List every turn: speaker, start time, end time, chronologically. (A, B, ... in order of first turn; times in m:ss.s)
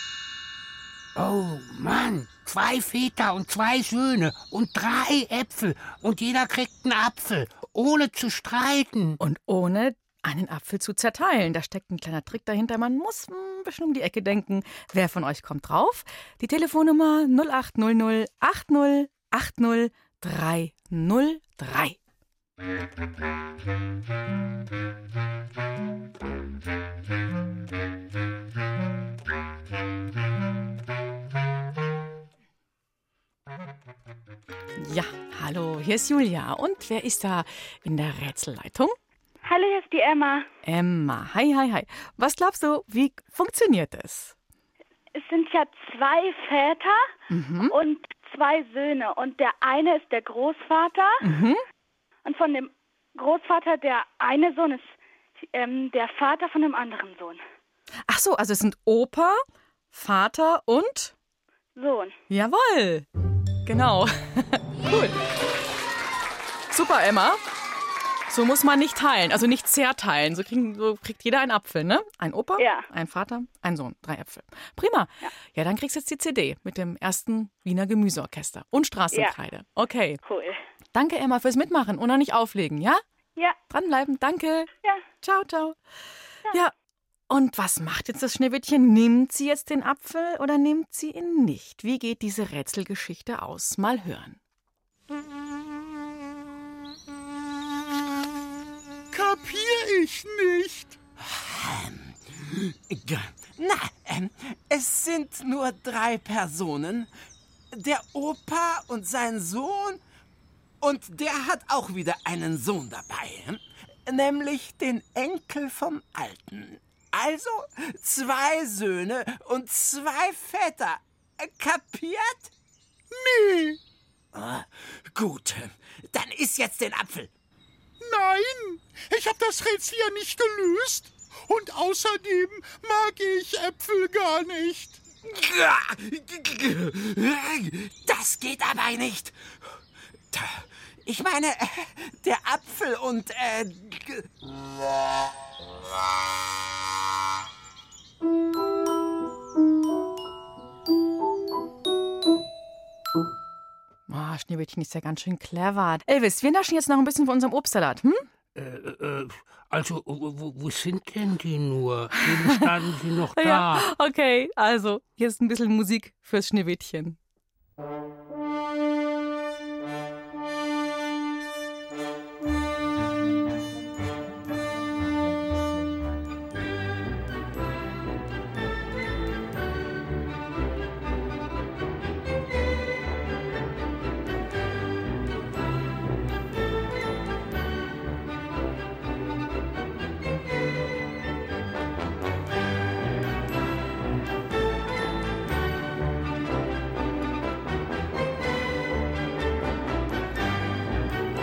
0:01.2-0:09.2 A
0:09.2-0:22.0 B
0:34.8-0:38.9 B
0:39.4-0:40.4 C
0:40.6-0:44.4 B
0:45.1-0:47.1 C
0:47.3-0:47.7 B
0:47.7-0:51.2 C
0:51.2-0:51.6 B
0:52.2-0:54.9 C
0:55.5-0:57.4 C
0:58.1-1:01.1 B
1:01.8-1:02.1 C
1:02.3-1:03.0 B
1:03.6-1:05.2 B
1:06.7-1:07.4 B
1:08.3-1:20.2 B
1:12.6-1:12.8 C
1:19.1-1:19.3 C
1:20.2-1:20.6 C
1:20.9-1:23.0 B
1:23.7-1:24.7 B
1:25.2-1:25.8 B
1:27.3-1:34.4 B
1:39.1-1:41.0 D
1:41.2-1:47.1 E
1:47.7-1:50.0 E
1:50.8-2:02.5 E
2:03.1-2:03.8 D
2:04.3-2:07.3 E
2:08.0-2:15.0 D
2:15.2-2:19.5 E
2:20.3-2:24.2 E
2:34.1-2:38.2 B
2:38.6-2:43.8 A
2:43.3-2:47.2 B